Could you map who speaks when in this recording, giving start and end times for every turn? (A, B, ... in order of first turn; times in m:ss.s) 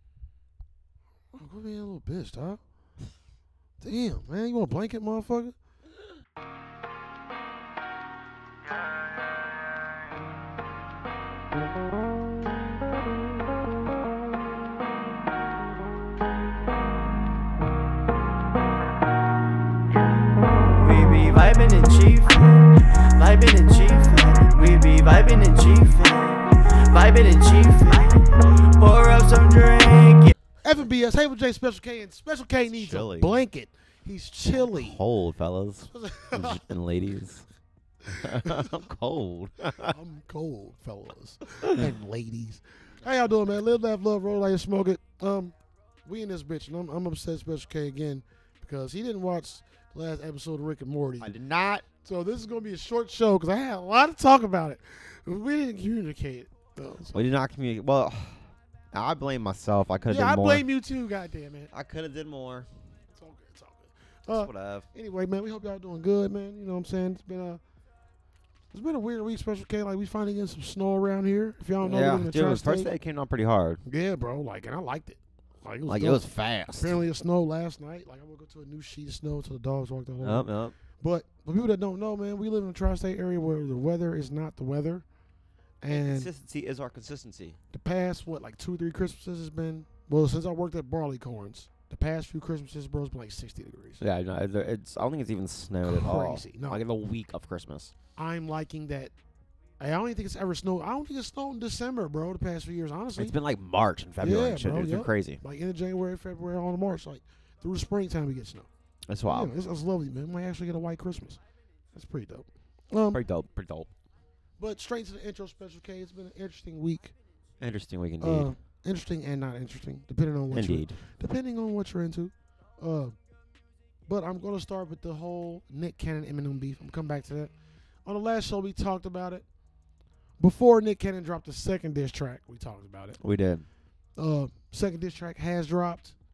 0:01.3-0:02.6 A
0:03.8-0:05.5 A
0:20.7-0:30.3 B
0:30.6-0:35.0 A
0:32.7-0:33.4 C
0:34.6-0:37.4 C
0:35.9-0:36.7 A
0:38.1-0:40.0 C
0:38.2-0:38.6 A
0:39.8-0:45.5 A
0:46.0-0:51.3 A
0:51.2-0:51.8 C
0:52.0-0:57.3 A
0:57.1-1:00.6 C
1:00.1-1:01.7 A
1:01.7-1:02.7 C
1:03.2-1:07.6 A
1:04.3-1:04.9 C
1:08.7-1:12.9 A
1:11.8-1:13.8 C
1:13.8-1:25.0 A
1:15.9-1:17.0 C
1:20.2-1:20.7 C
1:25.8-1:26.3 A
1:25.9-1:27.6 C
1:27.7-1:34.0 A
1:34.0-1:37.9 C
1:35.8-1:36.8 A
1:38.2-1:39.1 A
1:39.8-1:43.3 A
1:43.2-1:45.4 C
1:44.2-1:48.7 A
1:49.1-1:49.5 C
1:49.3-1:51.4 A
1:51.9-1:53.2 A
1:53.1-1:53.9 C
1:54.6-1:57.1 A
1:57.6-1:58.5 C
1:58.2-2:03.2 A
2:00.5-2:01.0 C
2:04.1-2:07.5 A
2:08.0-2:09.4 A
2:10.4-2:13.2 A
2:13.2-2:13.6 C
2:14.2-2:16.1 A